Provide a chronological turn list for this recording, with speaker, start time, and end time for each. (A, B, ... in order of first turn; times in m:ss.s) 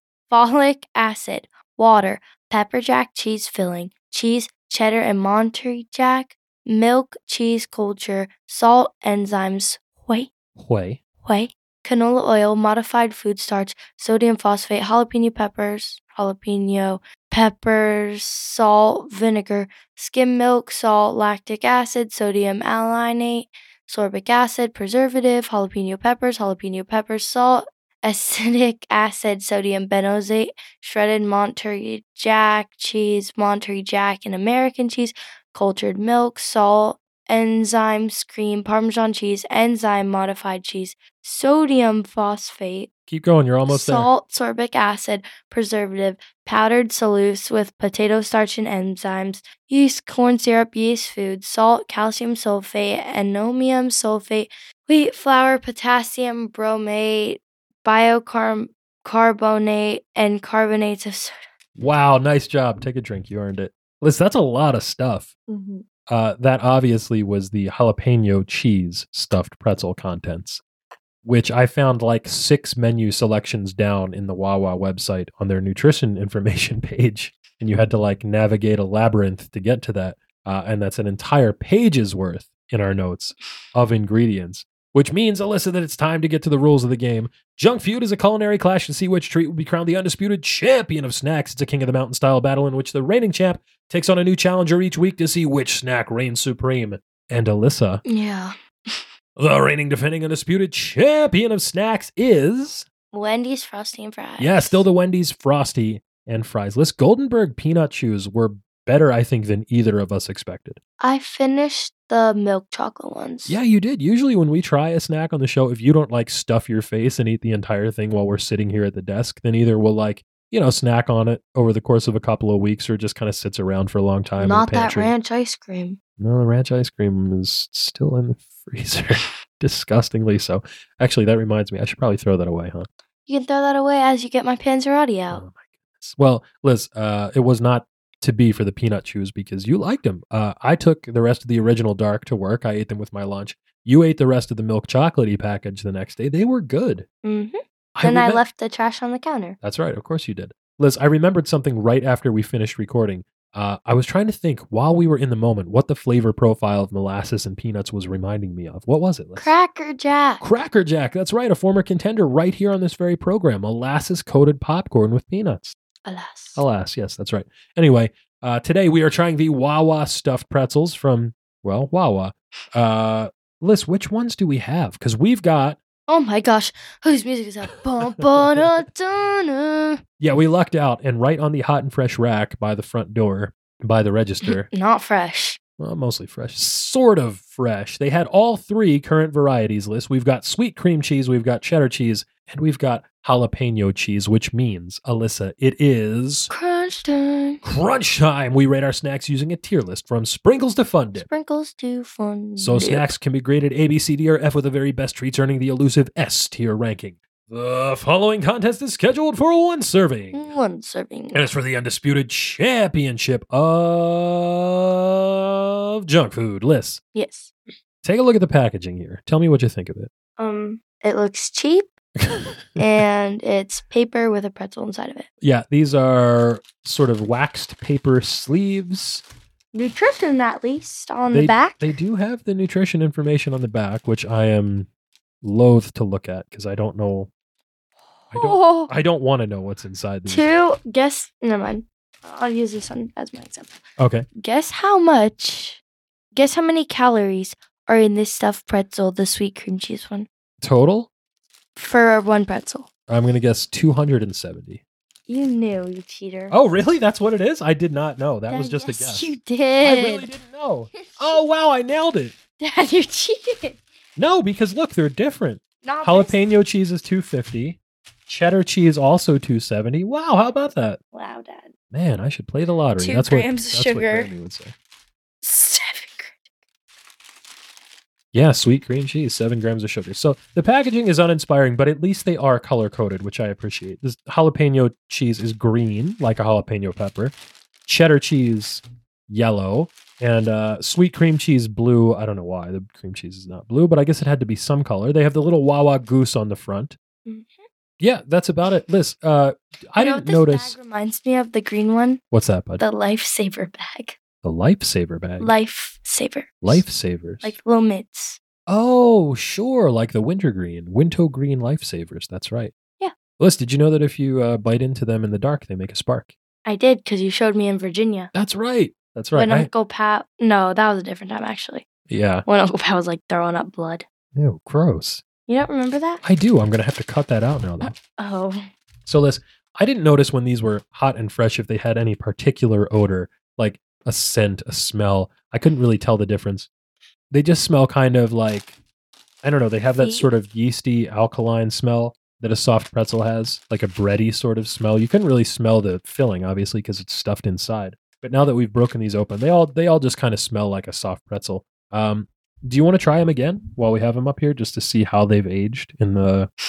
0:00.3-0:10.3 A
0:10.6-0:11.0 B
0:11.2-0:42.9 A
0:43.1-0:44.1 B
0:43.7-1:01.3 A
1:01.8-1:05.3 B
1:05.5-1:05.8 A
1:06.1-1:10.6 B
1:11.2-1:38.0 B
1:38.0-1:39.1 A
1:39.4-1:42.8 B
1:43.1-1:44.8 A
1:44.4-1:50.8 B
1:51.0-1:53.6 A
1:53.4-2:05.1 B
2:04.4-2:06.0 A
2:06.2-2:12.9 B
2:13.3-2:15.4 A
2:15.3-2:27.0 B
2:27.2-2:29.6 A
2:28.0-2:28.4 B
2:29.6-2:39.5 B
2:39.4-2:40.4 A
2:40.4-2:45.8 B
2:46.0-2:46.6 A
2:46.6-2:55.8 B
2:56.1-3:00.0 A
2:58.0-2:58.6 B
3:00.2-3:04.7 B
3:04.4-3:05.6 A
3:05.8-3:16.5 B
3:16.5-3:17.6 A
3:17.6-3:21.3 B
3:21.1-3:23.1 A
3:22.6-3:30.5 B
3:30.3-3:31.5 A
3:31.3-3:37.0 B
3:37.1-3:37.5 A
3:38.0-3:40.1 B
3:40.4-3:41.9 A
3:42.2-3:42.8 B
3:42.8-3:45.3 A
3:45.4-3:49.2 B
3:49.7-3:51.8 A
3:51.3-3:54.9 B
3:55.4-3:57.3 B
3:58.3-3:58.9 A
3:58.3-4:00.4 B
4:00.3-4:03.8 A
4:04.0-4:04.3 B
4:04.3-4:05.8 A
4:06.3-4:10.3 A
4:10.6-4:11.1 B
4:11.8-4:12.9 A
4:13.1-4:14.8 B
4:15.3-4:16.5 A
4:16.5-4:22.3 B
4:18.5-4:20.3 A
4:22.6-4:23.8 A
4:24.2-4:31.0 B
4:25.8-4:26.4 A
4:31.1-4:31.7 A
4:31.9-4:34.7 B
4:33.0-4:34.3 A
4:35.4-4:36.4 A
4:38.3-4:47.3 B
4:47.9-4:57.0 B
4:57.2-4:57.6 A
4:58.0-5:00.8 B
5:00.0-5:02.2 A
5:02.3-5:02.8 B
5:02.8-5:04.2 A
5:04.4-5:05.5 B
5:05.4-5:06.8 A
5:06.6-5:07.5 B
5:07.4-5:08.4 A
5:08.7-5:12.7 B
5:13.4-5:16.3 B
5:16.6-5:18.3 A
5:18.3-5:19.7 B
5:19.3-5:21.9 A
5:22.1-5:22.4 B
5:22.4-5:24.0 A
5:24.4-5:25.2 B
5:25.5-5:26.2 A
5:26.2-5:27.9 B
5:27.8-5:28.6 A
5:29.0-5:36.7 B
5:37.3-5:38.7 B
5:39.4-5:56.5 B
5:40.0-5:40.3 A